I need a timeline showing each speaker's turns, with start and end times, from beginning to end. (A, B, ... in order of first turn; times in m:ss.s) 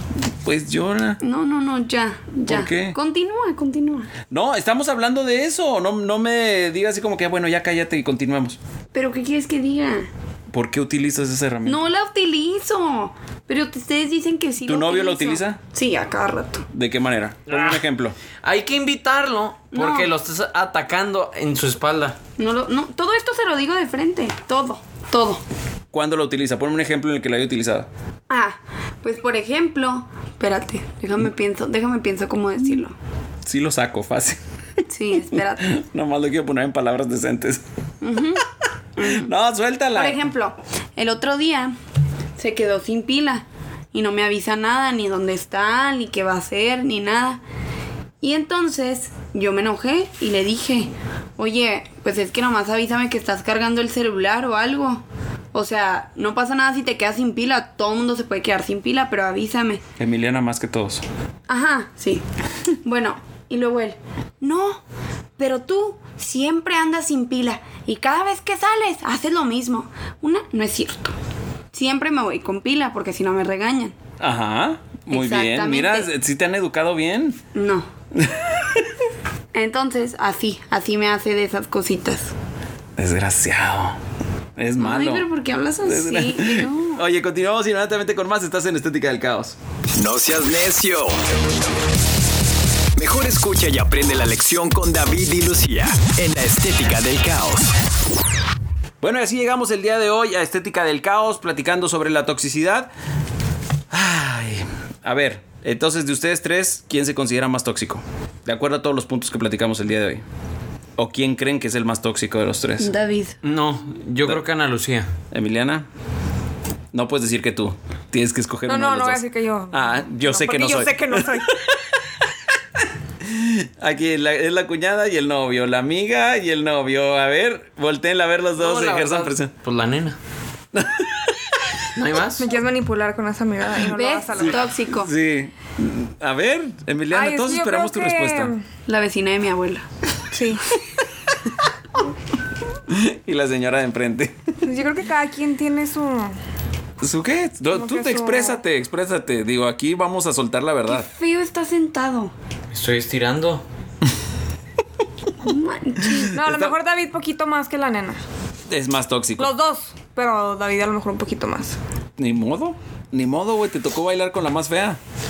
0:00.2-0:01.2 A
0:01.2-0:04.1 B
0:02.5-0:03.0 A
0:04.3-0:08.6 A
0:08.9-0:10.1 B
0:10.5-0:11.9 A
0:11.6-0:16.7 B
0:14.7-0:15.6 A
0:16.7-0:18.2 A
0:18.4-0:22.2 C
0:19.7-0:20.1 B
0:22.4-0:25.4 B
0:25.9-0:27.9 A
0:28.3-0:33.0 B
0:33.4-0:34.4 A
0:34.9-0:35.7 B
0:35.3-0:37.6 A
0:38.0-0:38.4 B
0:39.0-0:39.3 B
0:39.0-0:40.2 A
0:39.9-0:41.7 B
0:42.4-0:47.4 B
0:48.2-0:59.8 B
1:00.0-1:01.0 A
1:01.5-1:02.2 B
1:02.8-1:04.8 B
1:05.4-1:11.1 B
1:11.7-1:13.9 B
1:14.2-1:17.4 A
1:15.1-1:16.1 B
1:17.5-1:17.9 B
1:18.1-1:18.9 A
1:19.5-1:22.3 B
1:23.0-1:24.0 A
1:24.6-1:25.3 A
1:24.8-1:27.0 B
1:25.8-1:29.6 A
1:29.9-1:31.2 D
1:33.0-1:37.8 D
1:39.0-1:42.9 A
1:43.9-1:50.2 A
1:51.0-1:52.9 A
1:52.8-1:53.4 B
1:53.4-1:55.1 C
1:55.3-1:55.8 A
1:56.9-2:02.1 A
1:58.7-2:01.5 E
2:03.2-2:09.5 A
2:08.6-2:10.2 C
2:10.7-2:11.8 A
2:11.9-2:12.4 C
2:12.4-2:14.6 E
2:13.9-2:15.1 B
2:14.4-2:18.5 A
2:17.1-2:18.6 E
2:18.8-2:19.8 B
2:20.3-2:20.6 E
2:22.9-2:24.5 A
2:24.6-2:26.4 E
2:27.0-2:31.1 A
2:27.7-2:28.6 E
2:30.9-2:32.3 B
2:32.7-2:33.6 C
2:35.4-2:36.4 B
2:36.3-2:38.2 E
2:36.4-2:36.8 A
2:38.7-2:39.5 A
2:39.4-2:41.8 E
2:42.2-2:45.0 A